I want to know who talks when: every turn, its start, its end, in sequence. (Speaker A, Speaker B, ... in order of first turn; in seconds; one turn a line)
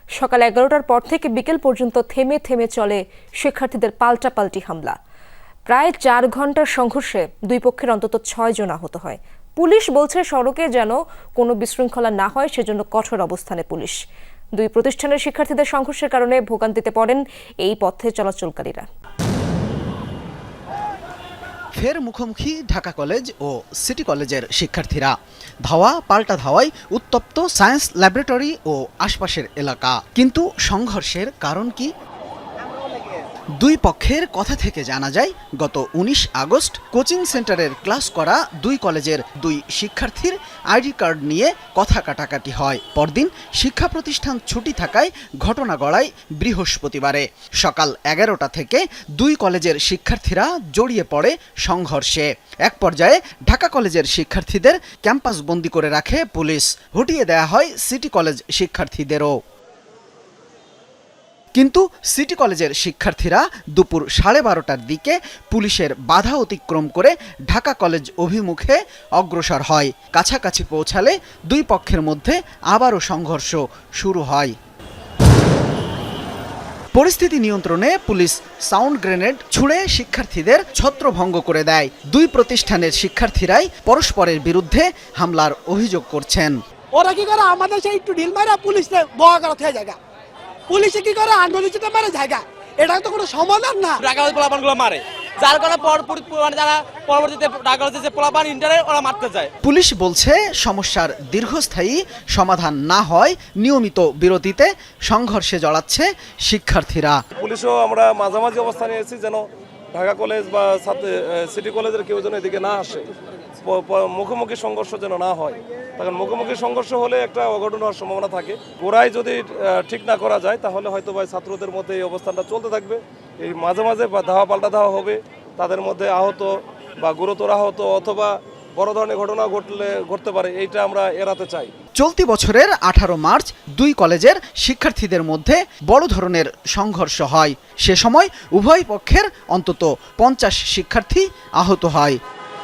Speaker A: 0.2-5.0
Speaker A: 5.7-14.0
Speaker A: 14.6-18.9
Speaker B: 21.8-25.1
Speaker B: 25.7-31.9
Speaker B: 33.6-59.4
Speaker B: 61.5-74.5
Speaker B: 76.9-86.6
Speaker C: 87.0-90.0
Speaker C: 90.7-94.0
Speaker D: 94.0-99.5
Speaker B: 99.6-107.2
Speaker E: 107.3-109.4
Speaker E: 109.9-113.1
Speaker E: 113.6-131.7
Speaker B: 132.0-142.2